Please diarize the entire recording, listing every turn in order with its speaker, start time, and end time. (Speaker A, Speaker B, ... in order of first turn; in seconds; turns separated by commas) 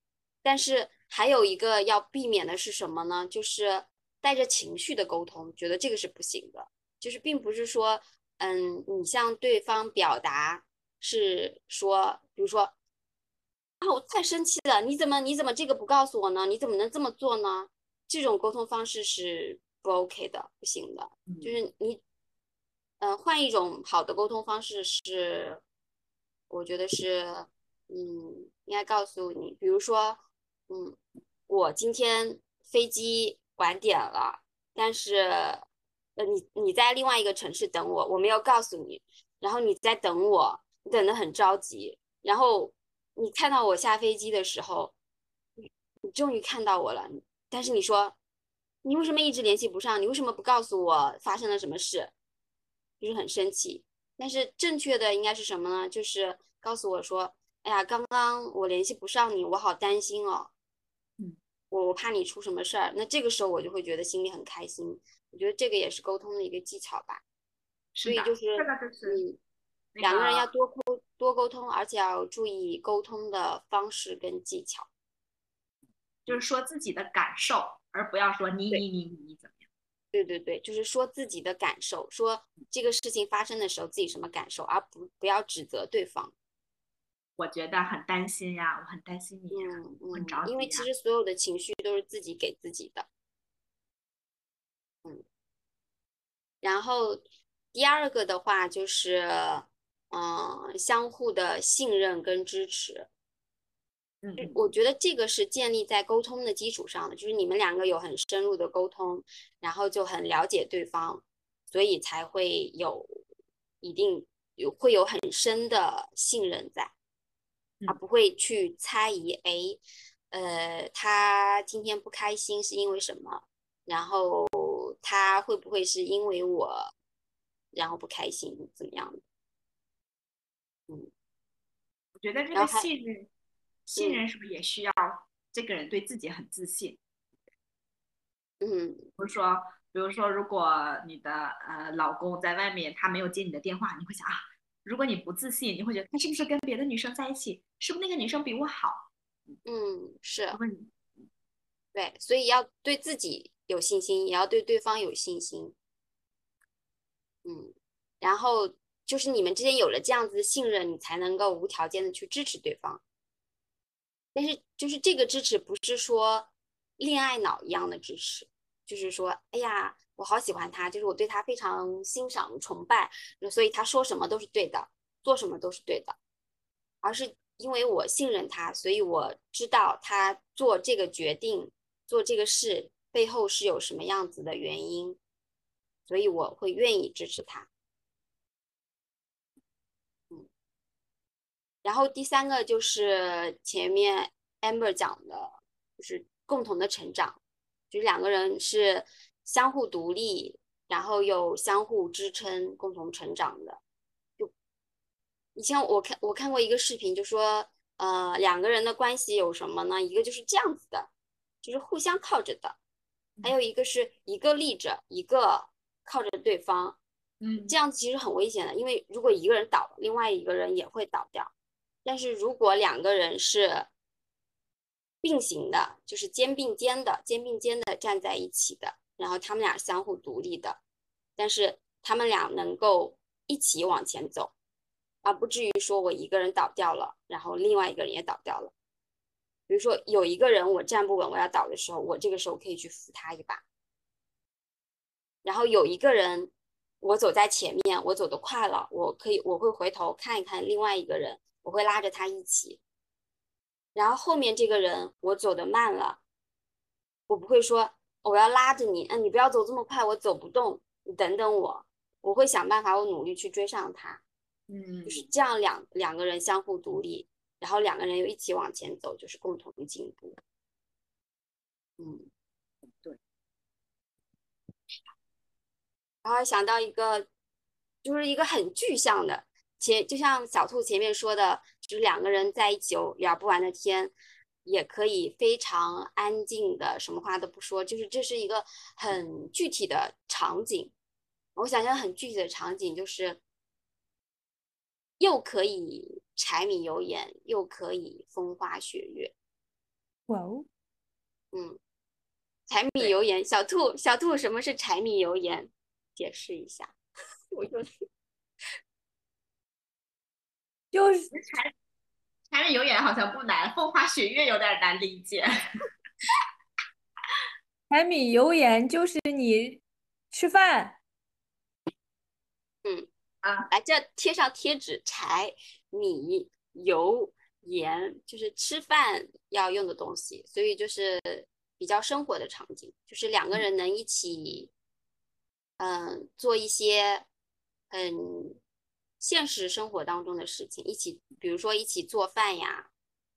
Speaker A: 0.4-12.7, Speaker A: 13.8-22.0, Speaker B: 21.3-21.6, Speaker A: 23.0-25.6, Speaker A: 26.5-35.6, Speaker A: 36.2-44.9, Speaker A: 45.6-48.1, Speaker A: 48.8-52.1, Speaker A: 53.0-60.5, Speaker A: 61.7-67.2, Speaker B: 67.9-69.2, Speaker A: 68.0-69.4, Speaker B: 69.9-70.5, Speaker A: 70.0-74.9, Speaker B: 76.3-79.7, Speaker A: 80.1-86.3, Speaker B: 87.4-90.9, Speaker A: 89.5-93.1, Speaker A: 96.6-103.1, Speaker B: 104.2-104.7, Speaker A: 104.4-113.2, Speaker A: 113.8-116.9, Speaker A: 117.9-126.9, Speaker A: 127.7-129.2, Speaker B: 132.2-133.3, Speaker A: 132.5-132.9, Speaker B: 133.9-137.0, Speaker A: 133.9-134.2, Speaker A: 138.6-139.1, Speaker B: 139.2-149.6, Speaker A: 149.7-150.6, Speaker B: 150.5-151.3, Speaker A: 151.9-155.7, Speaker A: 157.4-163.0, Speaker A: 164.3-176.2, Speaker A: 177.0-185.2, Speaker A: 186.1-187.7, Speaker A: 191.8-203.8, Speaker A: 205.6-211.1, Speaker A: 211.6-212.8, Speaker A: 213.4-217.0, Speaker B: 217.4-217.7, Speaker A: 217.7-221.5, Speaker A: 222.1-223.9, Speaker A: 225.2-230.8, Speaker A: 231.4-234.5, Speaker A: 235.2-238.7, Speaker A: 239.7-243.6, Speaker A: 245.4-252.8, Speaker A: 253.9-256.2, Speaker A: 257.3-264.2, Speaker B: 264.7-265.3, Speaker A: 265.1-270.4, Speaker A: 272.0-272.3, Speaker B: 272.8-273.2, Speaker A: 276.2-277.3, Speaker A: 278.0-284.1, Speaker A: 284.6-290.9, Speaker A: 291.6-293.4, Speaker A: 295.2-299.3, Speaker C: 300.3-300.7, Speaker A: 301.5-301.8, Speaker A: 302.7-306.9, Speaker A: 307.5-308.0, Speaker C: 310.9-311.3, Speaker B: 311.3-311.7, Speaker B: 312.5-315.5, Speaker C: 317.9-321.0, Speaker A: 322.8-323.1, Speaker B: 323.4-323.7, Speaker A: 323.7-334.7, Speaker A: 335.8-337.3, Speaker A: 337.9-338.6, Speaker A: 339.2-342.9